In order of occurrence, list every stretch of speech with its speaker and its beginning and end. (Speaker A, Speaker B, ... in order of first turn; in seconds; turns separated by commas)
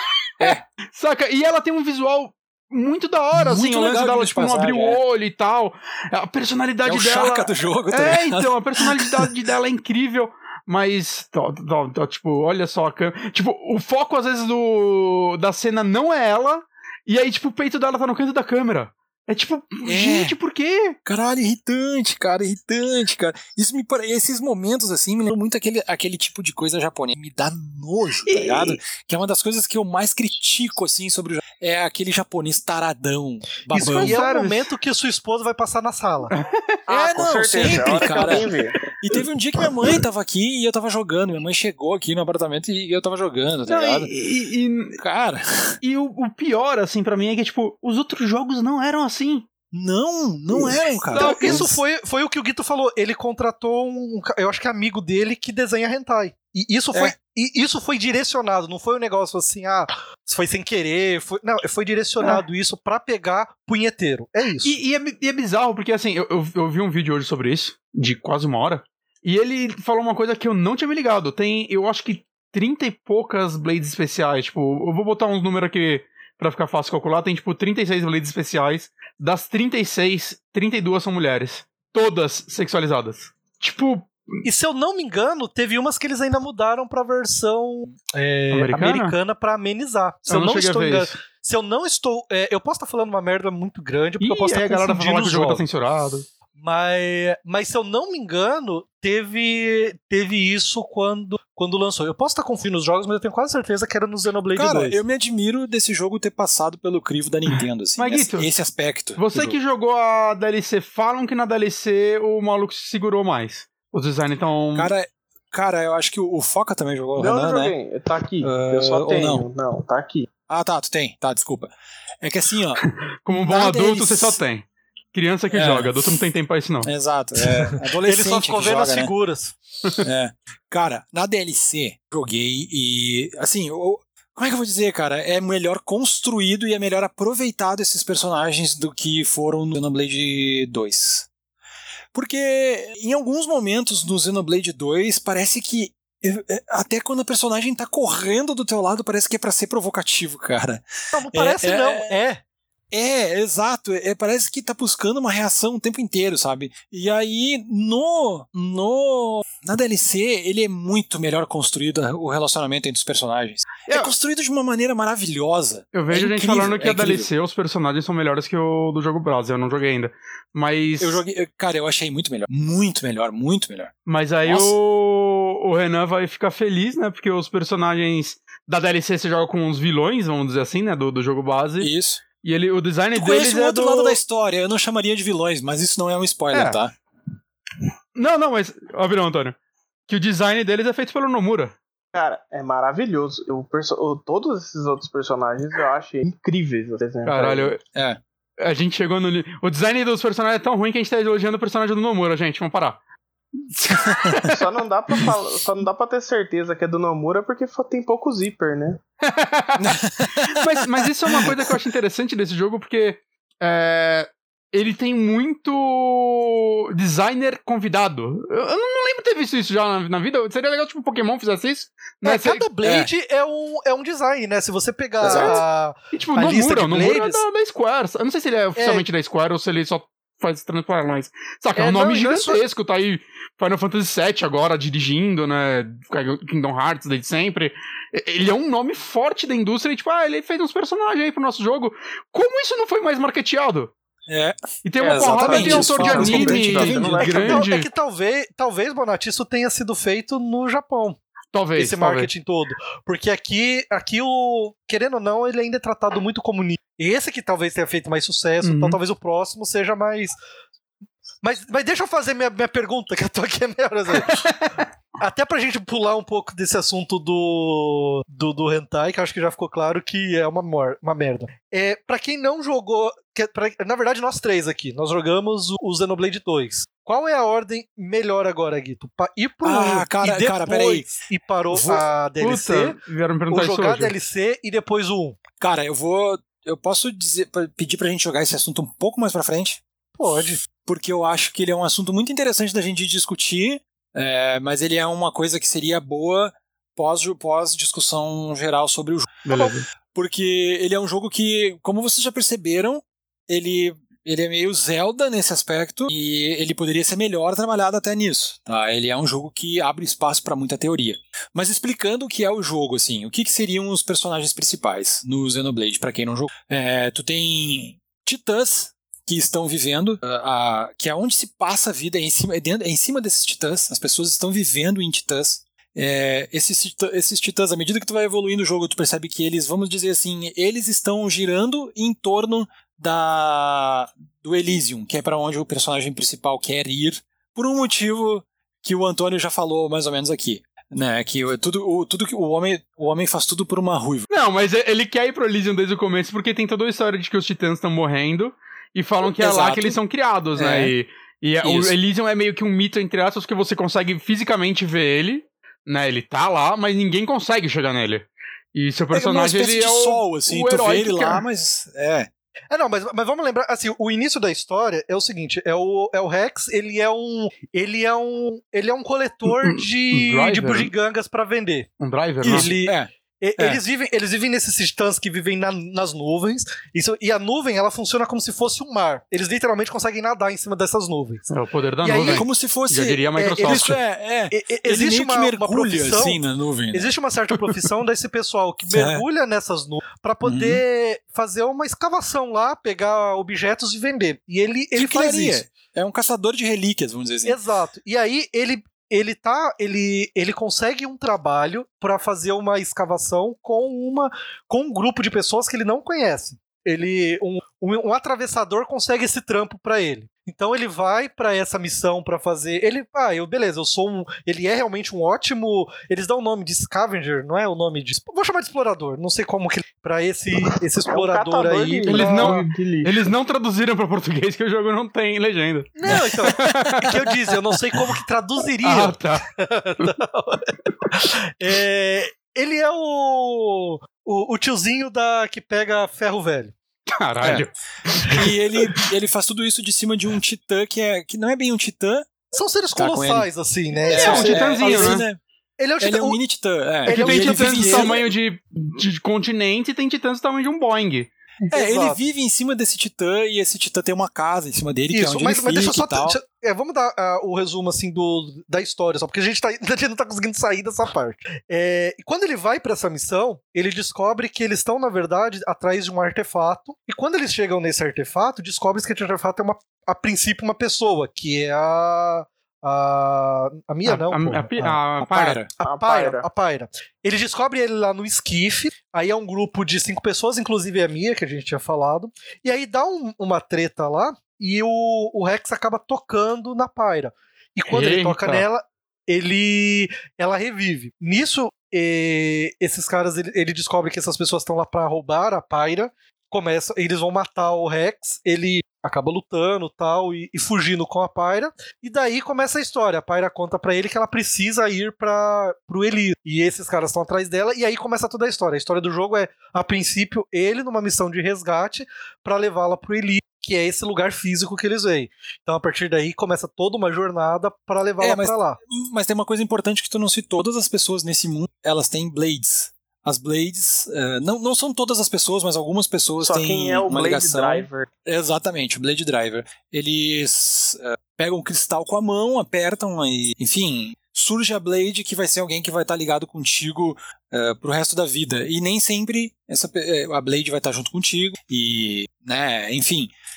Speaker A: 0.4-20.9, Speaker B: 3.3-5.0, Speaker B: 6.8-9.3, Speaker B: 19.9-20.4, Speaker B: 21.0-34.2, Speaker A: 28.3-28.8, Speaker C: 33.7-36.3, Speaker A: 33.8-34.6, Speaker A: 36.3-36.8, Speaker D: 36.9-38.8, Speaker B: 36.9-44.1, Speaker A: 43.7-45.0, Speaker B: 45.0-45.8, Speaker A: 45.8-49.5, Speaker B: 49.7-51.8, Speaker C: 50.5-64.8, Speaker A: 51.1-51.6, Speaker A: 64.6-84.4, Speaker C: 84.4-95.6, Speaker A: 88.5-89.2, Speaker A: 90.3-91.2, Speaker A: 94.2-96.2, Speaker C: 96.6-105.0, Speaker B: 104.5-109.6, Speaker A: 107.5-108.5, Speaker A: 109.2-114.9, Speaker B: 114.7-117.7, Speaker D: 117.2-120.3, Speaker B: 118.4-119.5, Speaker B: 120.5-121.7, Speaker B: 122.2-122.8, Speaker A: 123.2-126.9, Speaker C: 123.3-124.4, Speaker B: 125.5-126.2, Speaker B: 126.8-129.1, Speaker C: 127.7-129.6, Speaker B: 130.0-141.3, Speaker B: 142.1-152.2, Speaker C: 151.1-152.4, Speaker B: 152.9-167.3, Speaker A: 165.9-171.2, Speaker B: 171.0-173.9, Speaker A: 174.1-181.9, Speaker B: 174.4-174.7, Speaker B: 181.8-182.2, Speaker A: 182.4-184.2, Speaker B: 183.1-186.9, Speaker A: 186.5-186.8, Speaker A: 188.1-189.6, Speaker A: 190.1-191.7, Speaker D: 192.1-197.7, Speaker A: 197.2-197.8, Speaker B: 197.9-198.2, Speaker A: 198.6-203.0, Speaker A: 203.7-204.6, Speaker B: 204.1-204.3, Speaker D: 204.4-209.0, Speaker A: 209.2-222.7, Speaker B: 209.8-211.5, Speaker C: 222.2-227.4, Speaker B: 222.8-223.1, Speaker B: 225.2-225.6, Speaker A: 225.2-243.9, Speaker C: 228.8-229.1, Speaker C: 231.8-232.6, Speaker B: 244.3-247.6, Speaker A: 244.8-247.9, Speaker C: 245.2-251.2, Speaker A: 251.5-252.3, Speaker C: 251.8-260.4, Speaker A: 258.6-259.0, Speaker C: 261.4-264.5, Speaker A: 264.1-264.9, Speaker C: 265.2-283.0, Speaker B: 279.6-281.1, Speaker B: 281.7-282.0, Speaker A: 281.9-284.1, Speaker C: 283.5-285.4, Speaker B: 285.6-289.8, Speaker C: 290.1-290.6, Speaker B: 290.7-344.3, Speaker A: 299.4-299.8, Speaker A: 344.3-361.4, Speaker B: 349.2-350.0, Speaker B: 350.6-350.9, Speaker B: 351.6-351.9, Speaker B: 359.1-362.3, Speaker C: 362.7-371.9, Speaker A: 369.5-370.9, Speaker A: 372.0-372.7, Speaker C: 372.4-381.4, Speaker B: 372.5-373.8, Speaker A: 381.5-383.9, Speaker C: 382.0-382.4, Speaker B: 382.3-387.1, Speaker C: 383.4-386.4, Speaker C: 386.9-395.6, Speaker B: 388.9-389.2, Speaker B: 390.4-390.8, Speaker B: 394.9-397.6, Speaker C: 397.4-422.6, Speaker D: 420.7-423.2, Speaker A: 422.1-428.1, Speaker C: 425.9-436.7, Speaker A: 428.8-429.4, Speaker A: 437.1-439.0, Speaker B: 437.4-437.6, Speaker B: 438.3-442.3, Speaker C: 442.5-445.2, Speaker B: 442.9-443.5, Speaker B: 444.0-445.4, Speaker A: 444.1-445.2, Speaker C: 445.8-446.4, Speaker B: 446.0-448.2, Speaker C: 447.0-448.2, Speaker A: 447.1-451.3, Speaker C: 451.7-452.2, Speaker B: 451.7-456.4, Speaker C: 455.1-475.0, Speaker A: 474.0-475.6, Speaker B: 475.2-475.7, Speaker C: 475.8-518.8, Speaker D: 475.8-476.4, Speaker A: 487.9-488.6, Speaker B: 518.2-543.3, Speaker D: 526.4-528.1